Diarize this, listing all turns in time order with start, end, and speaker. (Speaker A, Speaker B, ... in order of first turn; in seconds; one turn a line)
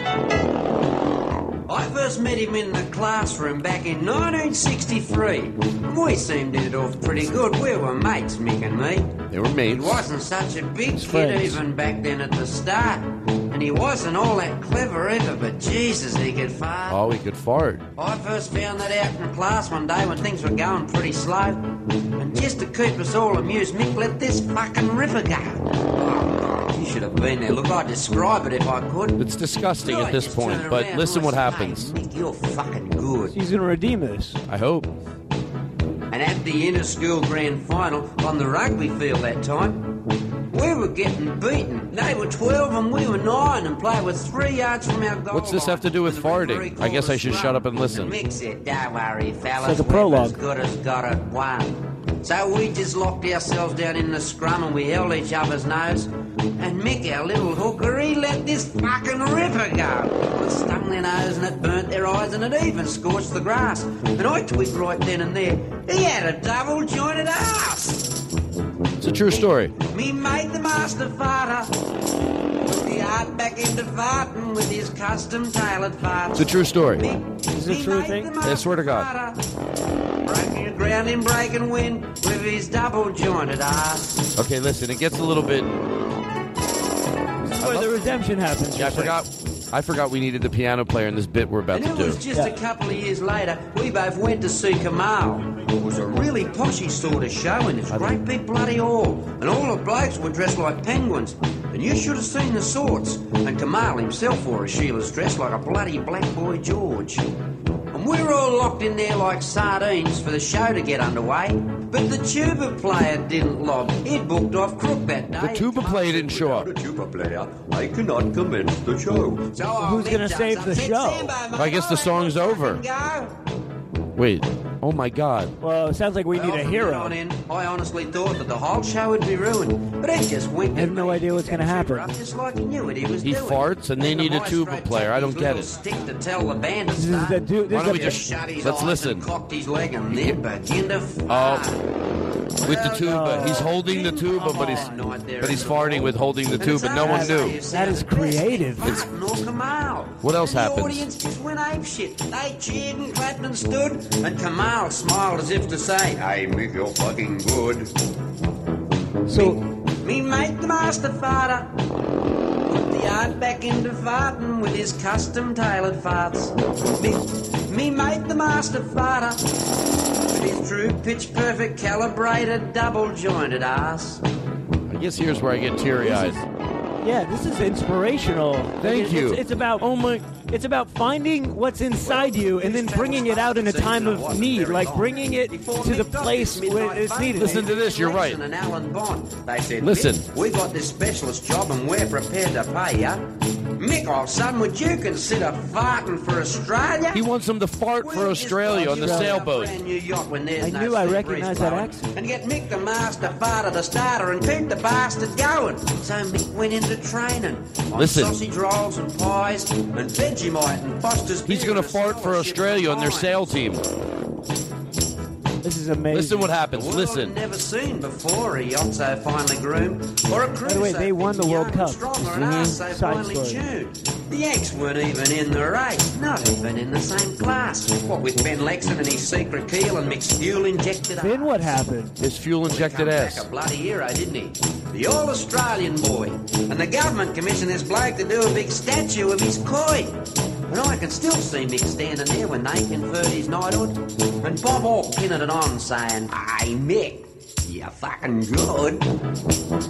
Speaker A: 1.7-17.0
Speaker B: 9.3-10.1
Speaker C: 10.9-11.6
Speaker B: 16.9-17.8
Speaker A: 17.9-29.2
Speaker B: 29.2-31.9
Speaker A: 29.8-33.3
Speaker C: 33.3-34.4
Speaker B: 34.5-34.9
Speaker A: 36.1-68.2
Speaker B: 45.3-48.1
Speaker C: 49.6-50.4
Speaker B: 69.0-69.7
Speaker A: 69.8-71.7
Speaker A: 72.6-79.4
Speaker B: 76.3-77.0
Speaker C: 77.5-78.3
Speaker B: 78.4-79.1
Speaker A: 80.2-84.3
Speaker B: 84.3-85.7
Speaker C: 87.5-89.2
Speaker B: 87.5-88.0
Speaker B: 88.7-92.2
Speaker A: 91.7-107.3
Speaker B: 97.9-98.2
Speaker A: 107.9-123.3
Speaker B: 115.4-116.7
Speaker C: 119.8-121.3
Speaker B: 121.5-122.8
Speaker B: 124.2-125.5
Speaker C: 125.6-127.1
Speaker A: 126.3-141.8
Speaker C: 130.7-132.1
Speaker B: 133.2-135.7
Speaker C: 136.9-138.2
Speaker B: 137.7-139.3
Speaker B: 140.1-140.4
Speaker B: 141.3-141.7
Speaker A: 142.6-157.9
Speaker B: 142.6-147.6
Speaker C: 143.0-145.0
Speaker C: 146.9-149.0
Speaker B: 150.2-151.1
Speaker C: 159.3-159.6
Speaker A: 159.3-161.8
Speaker A: 162.7-169.5
Speaker A: 170.3-174.2
Speaker B: 174.9-176.4
Speaker C: 176.0-176.4
Speaker C: 177.0-179.9
Speaker B: 178.8-180.3
Speaker C: 180.5-187.7
Speaker A: 182.0-197.2
Speaker B: 187.4-188.4
Speaker B: 189.8-190.2
Speaker B: 197.1-199.7
Speaker A: 198.0-213.6
Speaker C: 198.8-199.3
Speaker C: 200.6-202.1
Speaker B: 207.9-208.3
Speaker B: 211.5-213.8
Speaker C: 215.6-216.5
Speaker B: 216.1-217.3
Speaker A: 216.7-231.8
Speaker C: 220.6-223.6
Speaker B: 222.3-222.8
Speaker C: 231.2-232.2
Speaker B: 232.2-233.5
Speaker A: 232.6-249.1